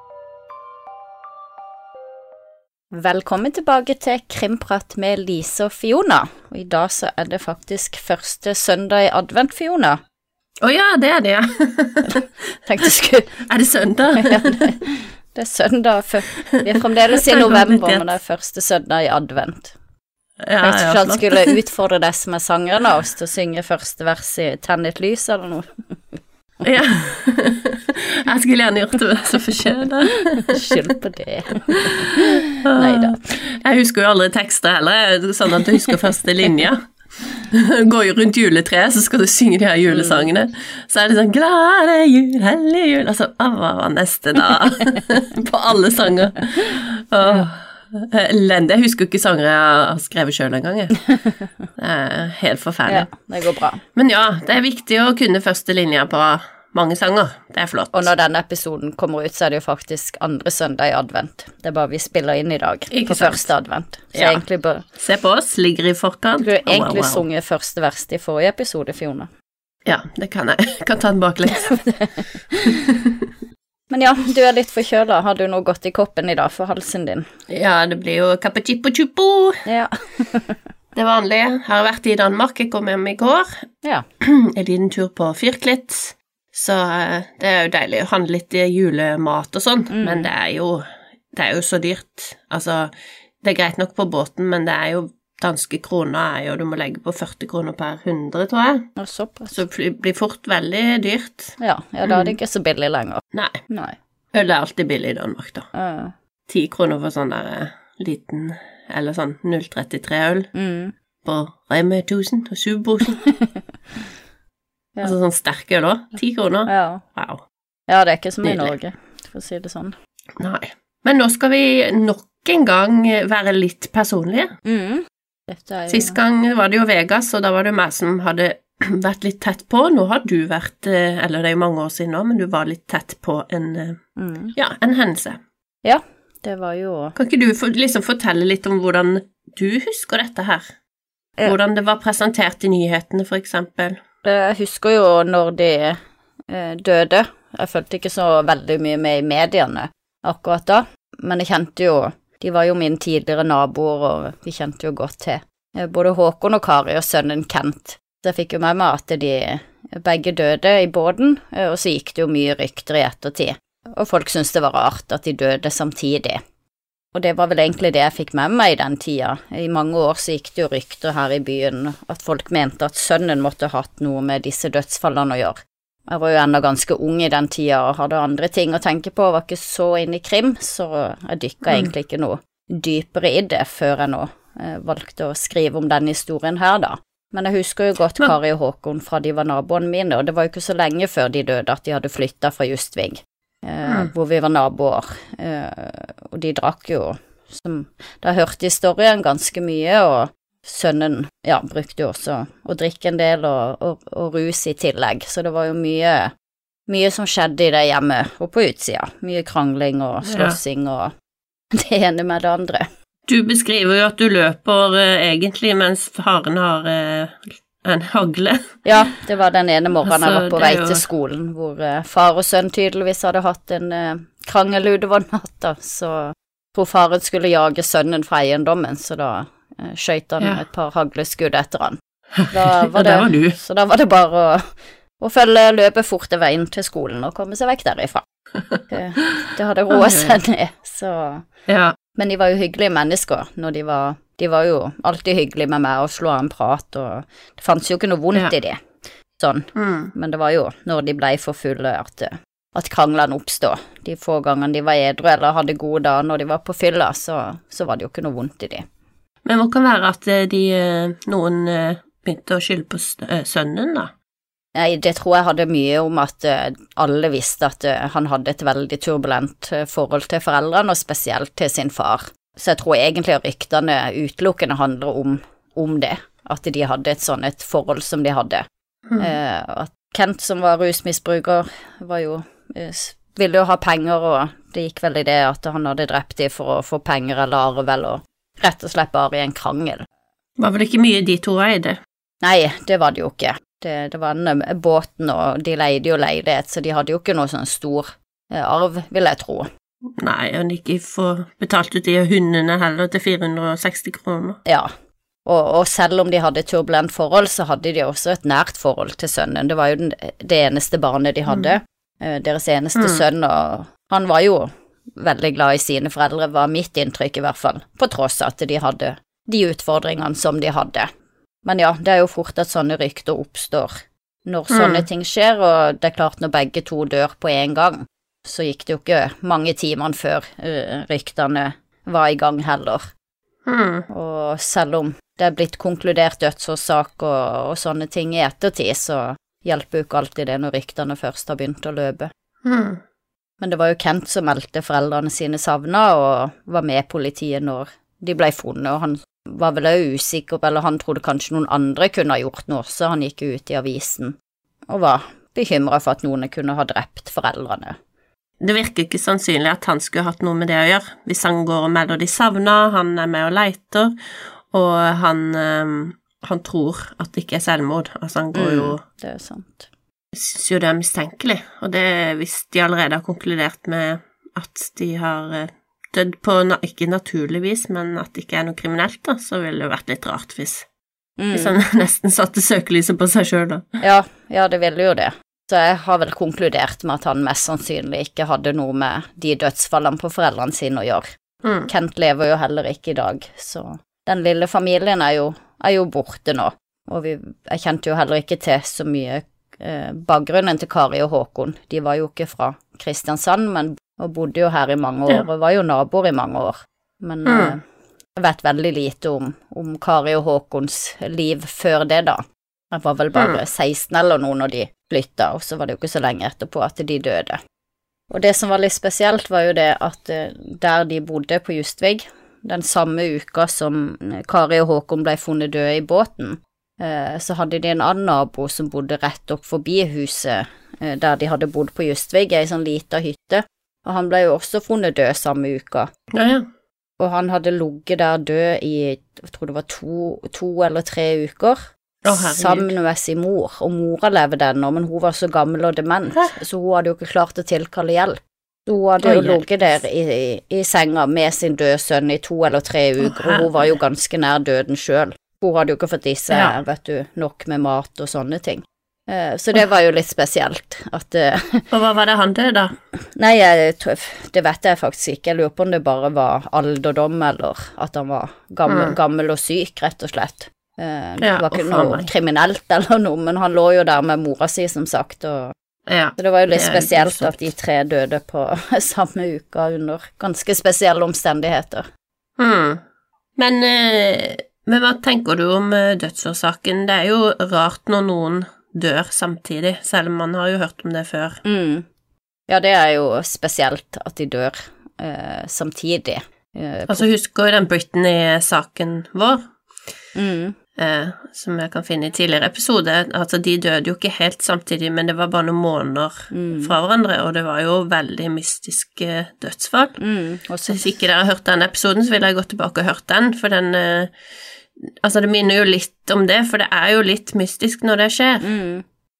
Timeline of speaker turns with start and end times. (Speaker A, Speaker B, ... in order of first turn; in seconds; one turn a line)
Speaker A: 2.9-10.0
Speaker B: 10.6-12.3
Speaker A: 12.7-13.3
Speaker B: 13.4-14.7
Speaker A: 14.2-19.7
Speaker B: 16.4-18.2
Speaker B: 20.4-21.6
Speaker A: 20.6-25.6
Speaker B: 26.6-30.8
Speaker A: 30.4-33.2
Speaker B: 31.7-36.8
Speaker B: 37.5-51.0
Speaker A: 39.9-40.3
Speaker B: 51.8-53.1
Speaker A: 52.9-53.8
Speaker B: 53.9-58.1
Speaker A: 57.9-64.8
Speaker B: 62.9-63.5
Speaker B: 64.1-64.4
Speaker B: 65.0-67.2
Speaker A: 66.4-69.3
Speaker B: 69.8-71.8
Speaker A: 71.5-72.8
Speaker B: 72.6-73.3
Speaker A: 73.9-77.3
Speaker B: 77.5-79.6
Speaker A: 79.7-80.6
Speaker B: 80.9-83.6
Speaker B: 84.2-98.9
Speaker A: 89.9-90.3
Speaker A: 99.0-99.6
Speaker B: 99.5-102.3
Speaker A: 101.6-104.0
Speaker B: 103.3-103.6
Speaker B: 104.3-105.7
Speaker A: 105.7-106.1
Speaker B: 106.5-110.5
Speaker A: 110.5-110.9
Speaker B: 111.2-113.2
Speaker A: 113.2-113.6
Speaker B: 115.0-117.4
Speaker A: 116.7-117.0
Speaker A: 117.9-119.9
Speaker B: 118.4-118.7
Speaker B: 120.4-124.5
Speaker A: 124.6-126.2
Speaker B: 125.9-134.0
Speaker A: 134.2-134.5
Speaker B: 134.6-135.4
Speaker A: 135.8-137.2
Speaker B: 137.2-140.7
Speaker B: 141.4-144.0
Speaker A: 144.2-166.4
Speaker A: 167.1-206.3
Speaker B: 193.8-194.1
Speaker A: 206.9-211.1
Speaker B: 210.2-210.6
Speaker A: 211.7-212.9
Speaker B: 213.3-218.8
Speaker A: 218.8-232.0
Speaker B: 220.0-221.0
Speaker B: 232.4-233.6
Speaker A: 232.5-238.2
Speaker A: 238.9-241.5
Speaker B: 239.9-240.4
Speaker B: 241.7-241.9
Speaker A: 242.1-258.9
Speaker B: 249.7-250.1
Speaker B: 259.4-264.1
Speaker A: 264.7-278.6
Speaker B: 279.1-279.3
Speaker A: 279.2-290.1
Speaker B: 290.6-292.0
Speaker A: 292.4-299.7
Speaker B: 300.2-304.6
Speaker A: 304.6-304.9
Speaker A: 305.4-321.1
Speaker B: 312.9-313.2
Speaker A: 321.6-333.1
Speaker B: 324.7-325.0
Speaker B: 333.6-334.1
Speaker A: 334.1-342.3
Speaker B: 342.6-343.0
Speaker A: 343.6-354.4
Speaker A: 354.9-358.0
Speaker B: 358.6-364.1
Speaker B: 364.7-369.0
Speaker A: 368.5-369.9
Speaker B: 370.3-380.9
Speaker A: 381.4-381.8
Speaker B: 381.5-384.0
Speaker A: 384.0-391.3
Speaker B: 391.6-391.9
Speaker A: 391.9-407.8
Speaker B: 407.4-407.8
Speaker A: 408.4-417.6
Speaker B: 413.3-413.6
Speaker A: 418.3-436.1
Speaker B: 436.3-436.7
Speaker A: 437.2-461.9
Speaker B: 442.2-442.9
Speaker B: 449.2-449.6
Speaker B: 453.2-453.9
Speaker B: 456.5-456.8
Speaker B: 461.9-462.9
Speaker A: 463.3-475.7
Speaker B: 468.9-469.1
Speaker B: 471.4-472.3
Speaker B: 476.1-477.7
Speaker A: 476.4-482.1
Speaker B: 482.6-483.0
Speaker B: 483.6-491.6
Speaker A: 491.6-492.1
Speaker A: 492.7-497.3
Speaker B: 497.1-499.7
Speaker A: 500.3-500.8
Speaker B: 501.0-510.2
Speaker A: 506.5-506.9
Speaker A: 510.2-511.1
Speaker B: 510.9-514.3
Speaker B: 515.1-518.6
Speaker A: 518.6-519.0